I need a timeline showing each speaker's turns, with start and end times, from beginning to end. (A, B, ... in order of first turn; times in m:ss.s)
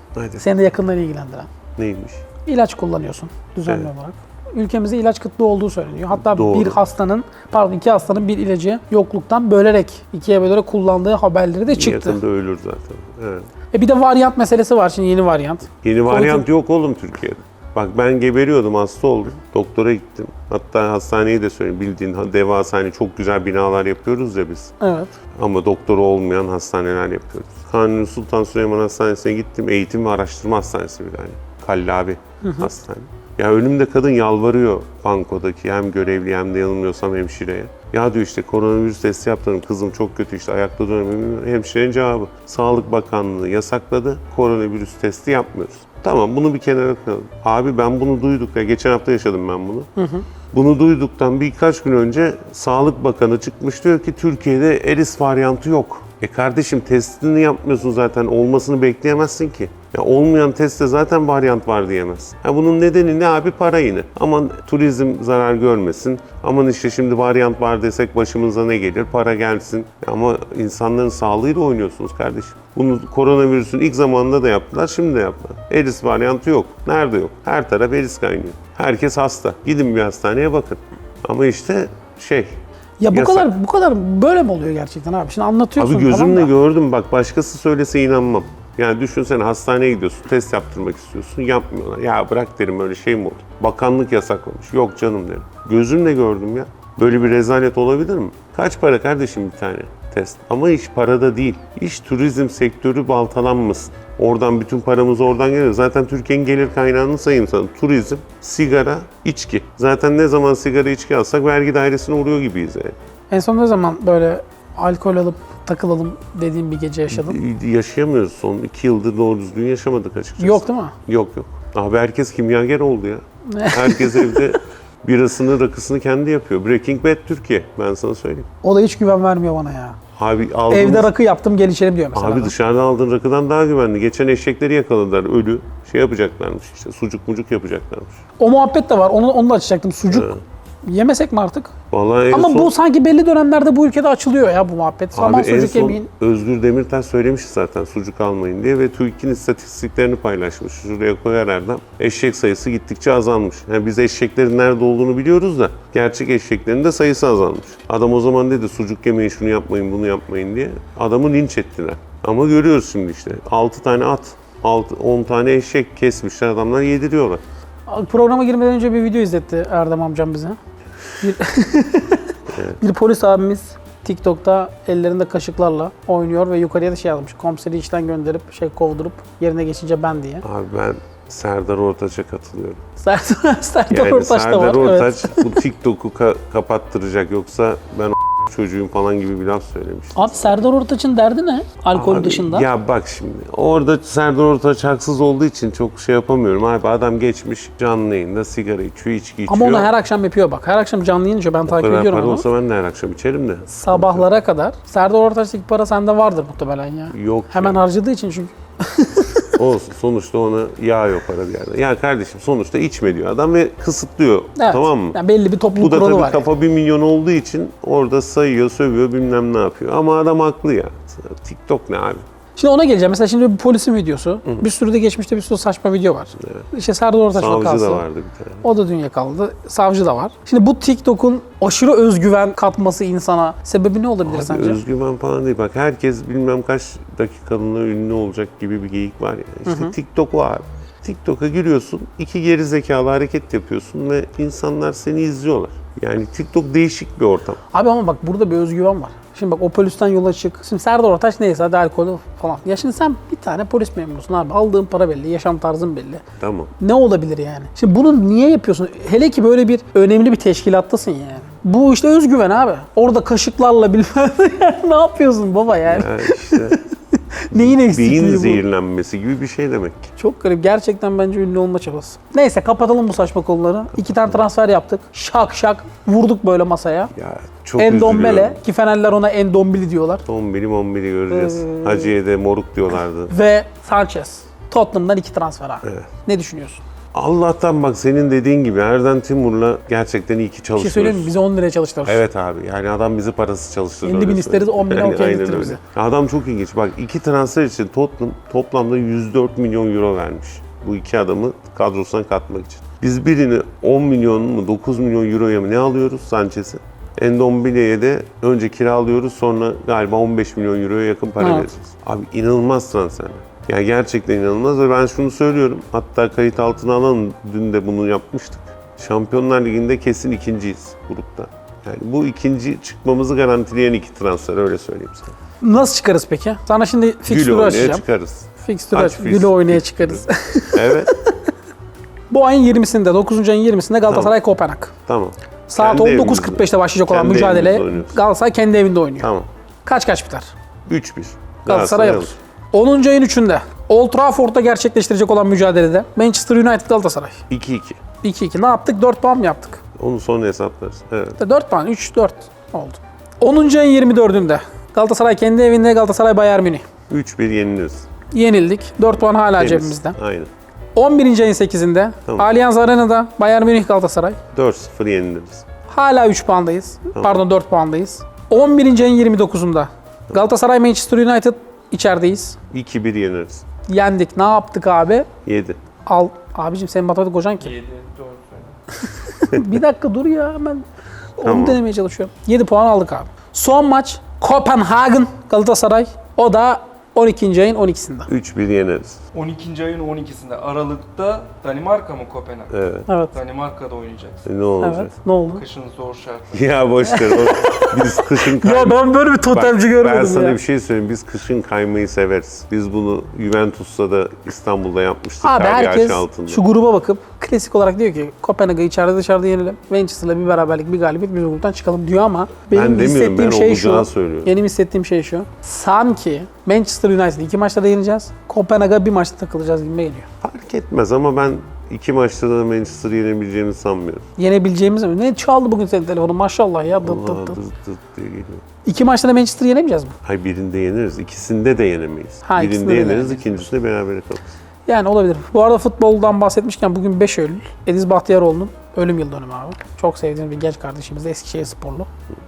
0:00.2-0:00.4 A
0:00.4-0:01.5 B
0:01.8-0:02.2 A
0:02.5-0:12.2 B
0:03.6-0:03.9 A
0:06.1-0:06.8 A
0:11.7-0:13.5 A
0:13.7-0:16.4 B
0:15.8-0:24.7 A
0:24.8-0:25.1 B
0:25.3-0:49.9 A
0:32.4-0:32.7 B
0:50.0-0:50.3 B
0:50.5-1:22.6 A
1:23.0-1:26.5 B
1:23.1-1:23.5 A
1:25.8-1:53.0 A
1:53.3-1:57.4 B
1:57.1-2:08.5 A
2:00.4-2:00.9 B
2:03.5-2:04.6 B
2:08.6-2:10.0 B
2:10.2-2:11.1 A
2:10.7-2:12.5 B
2:12.2-2:18.2 A
2:18.4-2:20.3 B
2:20.1-2:20.4 A
2:20.8-2:21.7 B
2:21.9-2:22.7 A
2:22.3-2:26.1 B
2:25.1-2:47.4 A
2:47.9-2:50.6 B
2:51.2-3:00.4 B
2:52.5-2:52.8 A
3:00.4-3:02.8 A
3:03.0-3:05.6 B
3:03.9-3:10.7 A
3:10.2-3:12.7 B
3:11.9-3:19.9 A
3:19.5-3:22.4 B
3:21.7-3:24.3 A
3:23.8-3:29.5 B
3:27.1-3:27.8 A
3:29.6-3:35.2 A
3:34.6-3:36.5 B
3:35.7-3:42.2 A
3:42.6-3:48.0 B
3:46.4-3:46.6 A
3:47.3-3:48.6 A
3:48.6-3:54.8 B
3:54.3-4:07.6 A
3:59.7-3:59.9 B
4:07.7-4:16.2 B
4:16.4-4:16.7 A
4:16.8-4:28.6 B
4:25.9-4:26.8 A
4:27.5-4:30.1 A
4:30.2-4:37.1 B
4:33.9-4:34.4 A
4:37.1-4:38.6 A
4:37.8-4:40.2 B
4:40.3-4:43.3 A
4:41.3-4:42.1 B
4:43.3-4:46.8 B
4:45.8-4:46.1 A
4:47.1-4:51.3 A
4:50.8-4:52.2 B
4:52.0-5:25.3 A
4:54.0-4:55.8 B
5:11.4-5:11.7 B
5:25.6-5:28.0 B
5:27.3-5:31.1 A
5:28.6-5:31.3 B
5:32.3-5:34.9 B
5:34.1-5:34.4 A
5:35.1-5:38.2 A
5:35.7-5:39.3 B
5:39.2-5:39.5 A
5:39.8-5:40.5 B
5:40.9-5:42.4 A
5:41.7-5:47.4 B
5:47.5-5:48.0 A
5:48.2-5:49.8 B
5:50.0-5:51.4 A
5:51.4-5:56.8 B
5:57.1-5:58.1 A
5:58.3-6:00.2 B
5:59.6-6:00.5 A
6:01.0-6:04.4 B
6:04.5-6:05.6 A
6:05.9-6:12.6 B
6:07.2-6:07.4 A
6:12.7-6:13.6 A
6:13.9-6:15.3 B
6:15.4-6:15.8 A
6:16.1-6:17.7 B
6:17.6-6:18.8 C
6:19.0-6:20.9 B
6:21.4-6:28.3 B
6:21.4-6:21.8 A
6:28.3-6:29.2 A
6:29.3-6:32.7 C
6:32.7-6:33.1 A
6:33.1-6:33.3 B
6:33.3-6:34.5 C
6:34.4-6:35.1 A
6:34.8-6:35.6 B
6:35.6-6:36.7 C
6:36.5-6:46.6 A
6:37.1-6:40.6 B
6:45.4-7:00.3 B
6:52.7-6:54.5 A
7:00.4-7:04.3 A
7:04.4-7:07.6 B
7:06.9-7:08.6 A
7:08.8-7:10.2 B
7:10.2-7:14.5 A
7:12.4-7:13.6 B
7:14.9-7:22.1 B